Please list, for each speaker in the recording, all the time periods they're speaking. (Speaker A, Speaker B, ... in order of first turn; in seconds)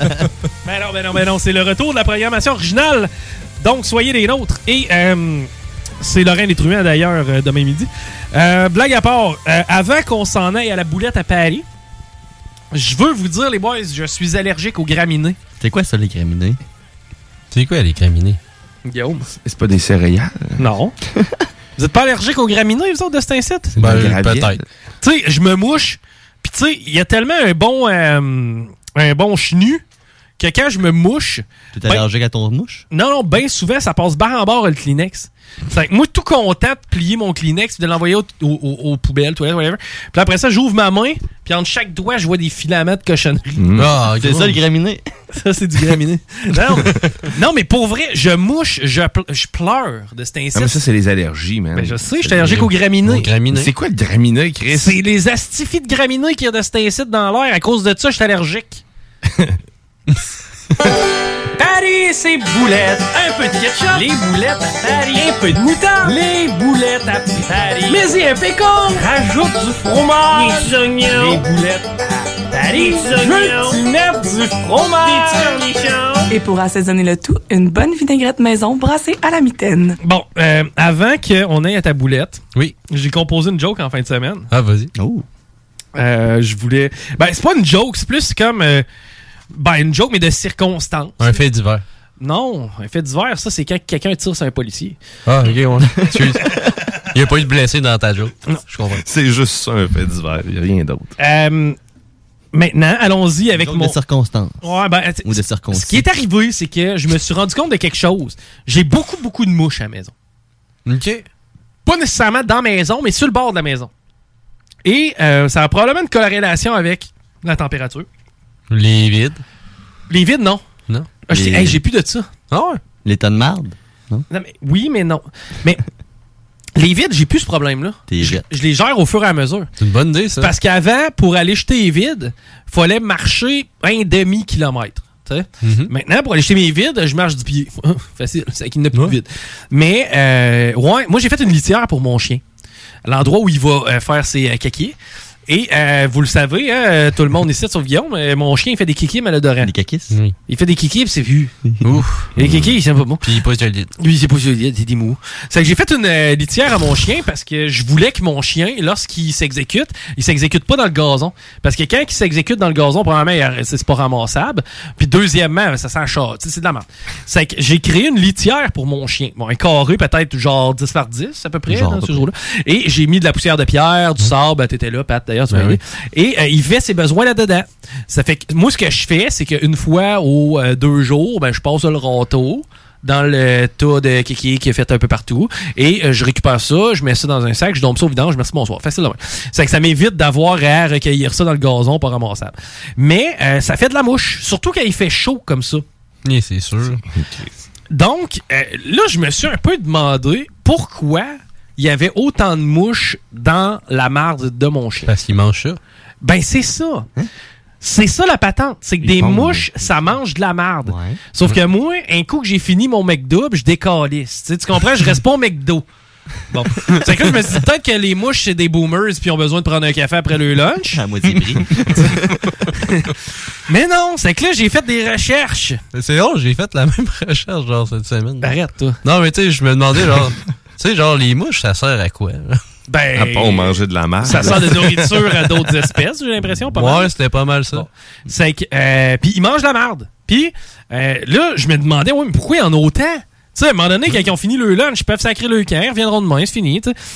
Speaker A: 0.6-5.5, 6.0-11.6, 12.7-15.4, 18.9-19.2, 20.6-20.9, 21.8-23.7, 25.0-29.8, 30.4-32.0, 32.9-43.6, 45.3-50.8, 51.7-53.3, 54.7-58.8, 61.6-62.0, 63.7-64.1, 65.1-66.2, 67.9-69.1, 69.9-71.8, 72.7-75.8, 80.0-84.5, 85.9-88.8, 89.5-91.4, 92.2-95.0, 101.2-101.8, 102.5-104.0, 104.6-110.1, 111.8-113.9, 114.8-118.1, 120.1-120.6, 121.3-122.3, 124.3-125.8, 126.8-129.7, 130.4-142.4, 143.0-144.9, 145.5-149.7, 150.5-151.5, 152.3-153.2, 154.0-195.8, 197.9-205.1, 206.2-207.1, 207.8-215.8, 216.5-221.0, 223.7-225.8, 228.4-229.0, 232.9-237.1, 237.7-246.9
Speaker B: 15.6-16.6, 31.7-32.8, 44.1-45.0, 84.9-85.2, 103.5-104.6, 105.2-106.0, 121.3-121.8, 123.0-124.2, 128.1-128.4, 149.6-150.2, 171.7-172.3, 210.8-211.2, 220.9-222.6
Speaker C: 17.5-18.4, 23.8-24.6, 43.8-44.6, 52.4-53.7, 84.5-84.9, 91.2-91.8, 95.2-96.5, 97.1-99.0, 110.8-111.2, 118.7-119.4, 122.5-122.8, 129.8-130.5, 135.6-135.9, 151.8-152.3, 153.2-153.9, 175.5-175.8, 196.2-197.0, 205.1-205.8, 225.9-228.5, 229.0-232.6, 236.7-237.9
Speaker D: 19.3-20.5, 23.8-24.6, 43.5-43.9, 50.5-52.5, 53.5-55.0, 99.0-101.1, 197.2-197.4, 209.1-209.6, 233.1-235.5
Speaker E: 76.3-77.6, 78.5-79.7